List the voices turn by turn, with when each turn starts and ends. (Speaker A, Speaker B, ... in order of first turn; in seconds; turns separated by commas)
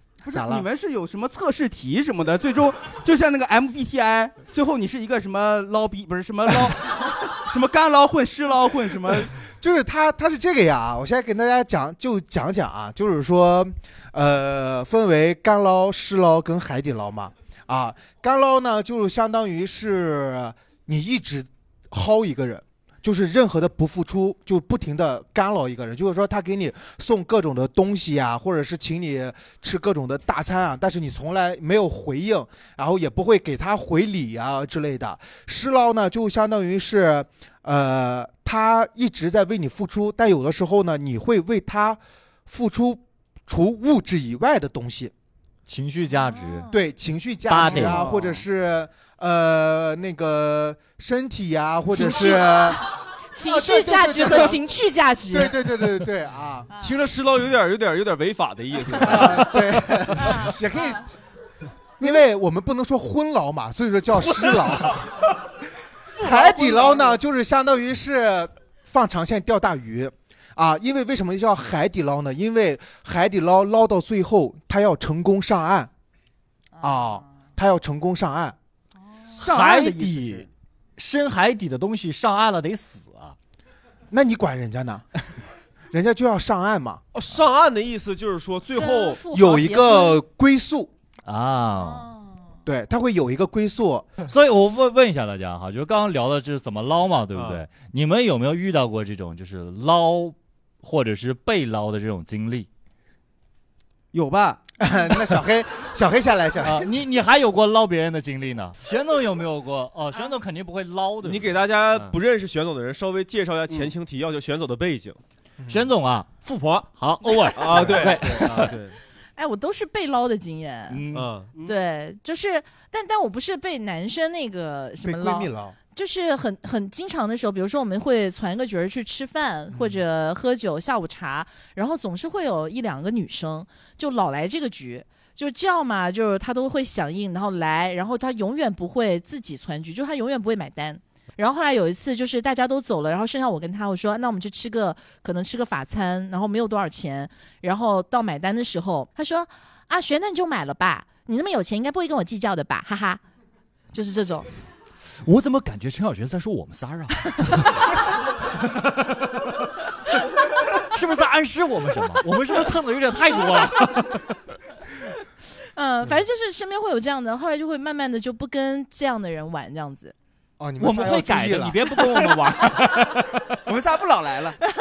Speaker A: 0.3-9.3, Speaker B: 0.3-0.7, Speaker B: 9.1-45.1, Speaker C: 45.6-46.7, Speaker D: 46.1-46.7, Speaker B: 46.7-52.8, Speaker C: 47.5-48.4, Speaker E: 47.6-48.1, Speaker D: 51.9-55.6, Speaker B: 53.4-54.6, Speaker B: 55.3-56.7, Speaker E: 56.8-60.4, Speaker B: 58.9-61.0, Speaker D: 60.2-61.0, Speaker B: 62.0-65.1, Speaker B: 66.2-75.9, Speaker A: 66.4-67.1, Speaker D: 76.8-77.2, Speaker B: 76.8-78.6, Speaker A: 79.3-80.4, Speaker C: 79.4-80.2, Speaker C: 81.0-83.3, Speaker B: 84.1-85.1, Speaker B: 85.9-87.0, Speaker E: 87.1-89.2, Speaker D: 88.8-90.2, Speaker B: 89.3-90.9, Speaker C: 91.2-92.1, Speaker D: 91.8-92.3, Speaker B: 92.7-94.2, Speaker C: 94.3-102.7, Speaker E: 97.3-97.7, Speaker A: 104.1-104.6, Speaker B: 104.8-106.9, Speaker C: 106.6-112.1, Speaker E: 111.2-115.2, Speaker B: 115.6-115.9, Speaker C: 115.7-118.8, Speaker E: 116.5-116.8, Speaker E: 117.5-119.0, Speaker D: 119.4-121.0, Speaker C: 120.9-121.3, Speaker E: 121.1-121.5, Speaker D: 121.6-153.2, Speaker B: 125.0-125.8, Speaker B: 129.7-130.0, Speaker D: 153.9-154.5, Speaker C: 155.2-157.8, Speaker C: 158.6-159.6, Speaker C: 160.7-164.2, Speaker D: 165.7-170.2, Speaker B: 170.6-171.8, Speaker C: 170.8-173.6, Speaker A: 173.7-174.6